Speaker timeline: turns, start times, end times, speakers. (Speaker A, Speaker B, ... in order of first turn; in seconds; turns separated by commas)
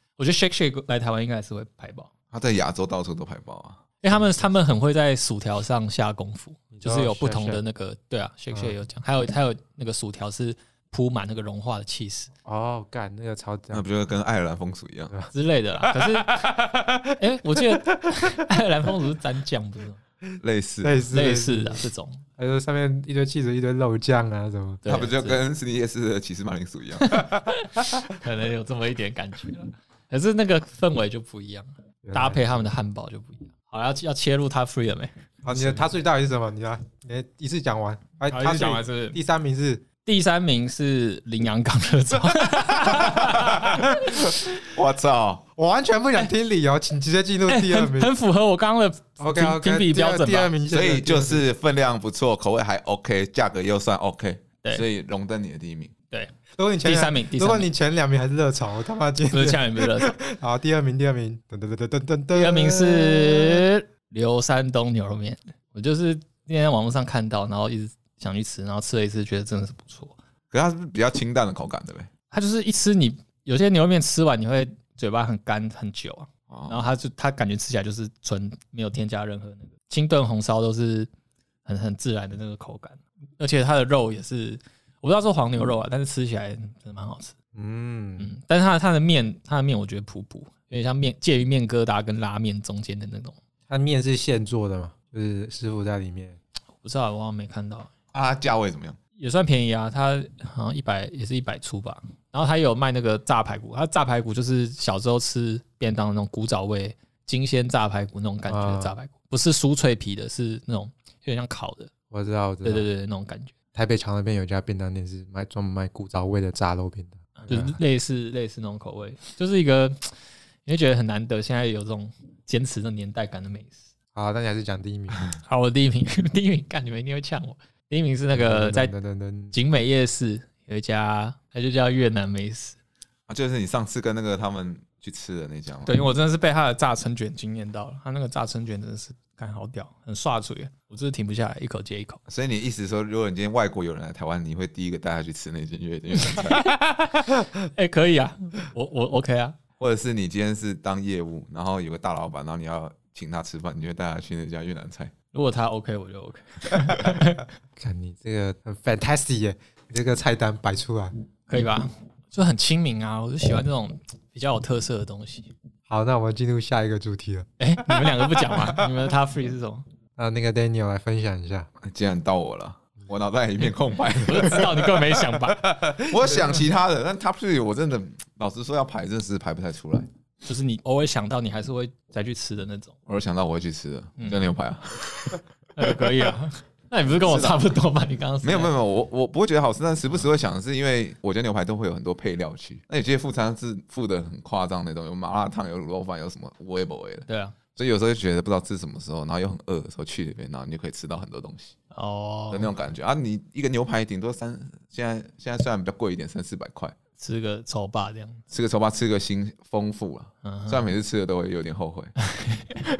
Speaker A: 0.2-2.1, Speaker B: 2.3-3.8, Speaker A: 4.0-12.3, Speaker C: 6.7-7.6, Speaker C: 8.5-8.8, Speaker C: 12.4-13.8, Speaker B: 13.7-15.1, Speaker A: 15.3-16.6, Speaker A: 17.1-20.0, Speaker B: 20.4-20.9, Speaker C: 20.8-21.8, Speaker A: 21.1-22.2, Speaker C: 22.4-24.8, Speaker A: 24.8-25.4, Speaker B: 24.9-27.4, Speaker A: 27.0-35.8, Speaker C: 32.0-32.7, Speaker C: 35.4-39.8, Speaker A: 38.3-39.2, Speaker A: 40.0-44.3, Speaker B: 43.3-45.4, Speaker C: 45.6-48.1, Speaker A: 47.5-50.5, Speaker C: 49.2-51.4, Speaker B: 50.7-55.9, Speaker C: 56.6-63.6, Speaker A: 56.8-57.7, Speaker A: 59.3-60.1, Speaker A: 62.3-70.2, Speaker B: 70.5-72.1, Speaker A: 72.3-81.1, Speaker B: 76.5-76.8, Speaker A: 81.6-87.3, Speaker C: 87.5-88.3, Speaker A: 88.2-93.3, Speaker C: 93.7-96.4, Speaker A: 96.8-97.9, Speaker B: 98.1-99.0, Speaker A: 99.2-111.9, Speaker C: 108.5-108.9, Speaker C: 112.1-112.9, Speaker A: 112.6-113.5, Speaker C: 113.7-117.7, Speaker A: 117.5-120.1, Speaker A: 120.6-123.9, Speaker C: 124.1-125.2, Speaker A: 125.4-128.9, Speaker C: 128.3-129.6, Speaker A: 129.5-132.8, Speaker B: 133.3-135.9, Speaker A: 135.8-142.2, Speaker B: 142.3-146.7, Speaker A: 146.4-146.7, Speaker A: 147.7-149.6, Speaker B: 149.8-155.1, Speaker A: 155.3-157.4, Speaker C: 157.8-161.1, Speaker A: 161.5-165.5, Speaker C: 165.9-167.5, Speaker A: 167.6-169.8, Speaker C: 170.2-171.7, Speaker B: 171.8-174.9, Speaker A: 174.2-175.6, Speaker B: 176.0-180.1, Speaker A: 180.4-182.9, Speaker B: 183.1-185.4, Speaker A: 184.2-184.5, Speaker A: 185.7-188.7, Speaker B: 187.2-187.7, Speaker B: 188.4-201.7, Speaker A: 197.3-197.6, Speaker A: 201.9-202.7, Speaker B: 202.5-206.9, Speaker A: 207.2-208.4, Speaker B: 208.5-212.1, Speaker A: 210.4-210.9, Speaker A: 212.3-212.9